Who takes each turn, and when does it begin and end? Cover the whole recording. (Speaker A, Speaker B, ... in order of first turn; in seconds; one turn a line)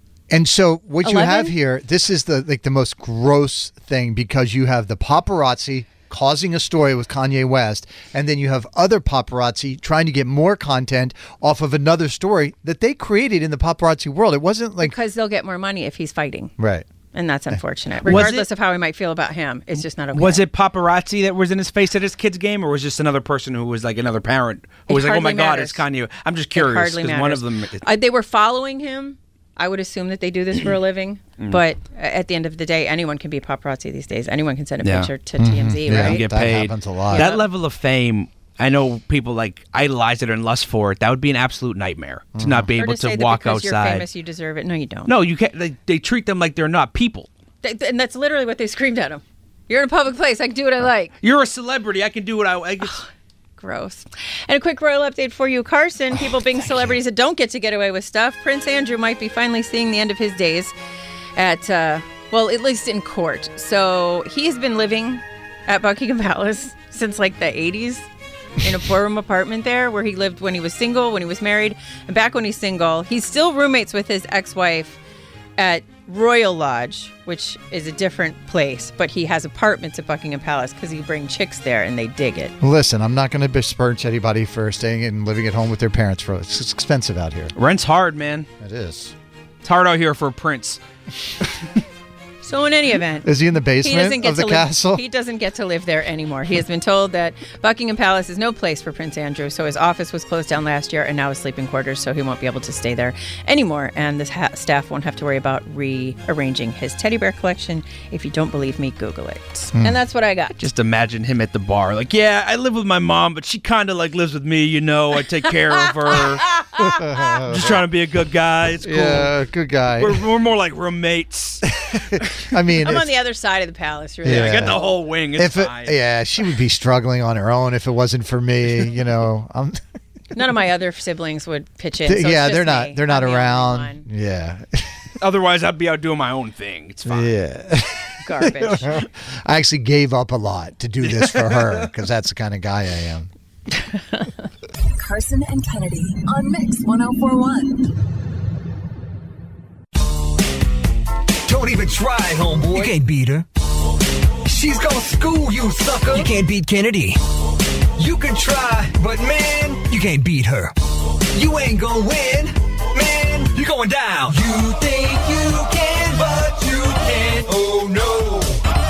Speaker A: 0.3-14.9
Speaker B: 1.0-1.5
Speaker B: 14.8-16.5
Speaker A: 16.6-16.9
Speaker B: 17.1-20.4
Speaker A: 17.5-18.3
Speaker C: 18.1-18.5
Speaker C: 20.1-27.9
Speaker B: 24.9-25.8
Speaker B: 26.5-36.3
Speaker C: 34.8-35.1
Speaker A: 35.4-37.3
Speaker C: 35.9-44.0
Speaker B: 37.1-37.5
Speaker A: 42.4-42.7
Speaker B: 42.8-45.1
Speaker C: 45.1-47.3
Speaker B: 47.6-51.1
Speaker C: 51.2-53.0
Speaker B: 53.6-60.7
Speaker B: 61.4-68.1
Speaker B: 68.6-75.0
Speaker B: 75.6-82.5
Speaker A: 82.6-87.5
Speaker C: 87.6-88.5
Speaker A: 88.6-89.2
Speaker C: 89.6-90.8
Speaker B: 92.4-110.6
Speaker A: 93.2-95.0
Speaker C: 110.6-116.5
Speaker B: 116.5-116.8
Speaker A: 116.8-117.8
Speaker C: 117.5-119.3
Speaker A: 118.8-120.2
Speaker C: 120.0-121.7
Speaker A: 121.9-123.1
Speaker B: 122.8-124.8
Speaker A: 124.2-124.8
Speaker C: 124.3-125.9
Speaker A: 125.3-129.8
Speaker B: 130.3-134.1
Speaker A: 132.1-134.9
Speaker C: 135.2-137.3
Speaker A: 137.1-143.3
Speaker B: 138.2-139.0
Speaker C: 141.0-141.9
Speaker D: 144.9-147.8
Speaker E: 151.5-153.5
Speaker E: 154.4-157.2
Speaker E: 158.0-160.8
Speaker E: 161.3-168.6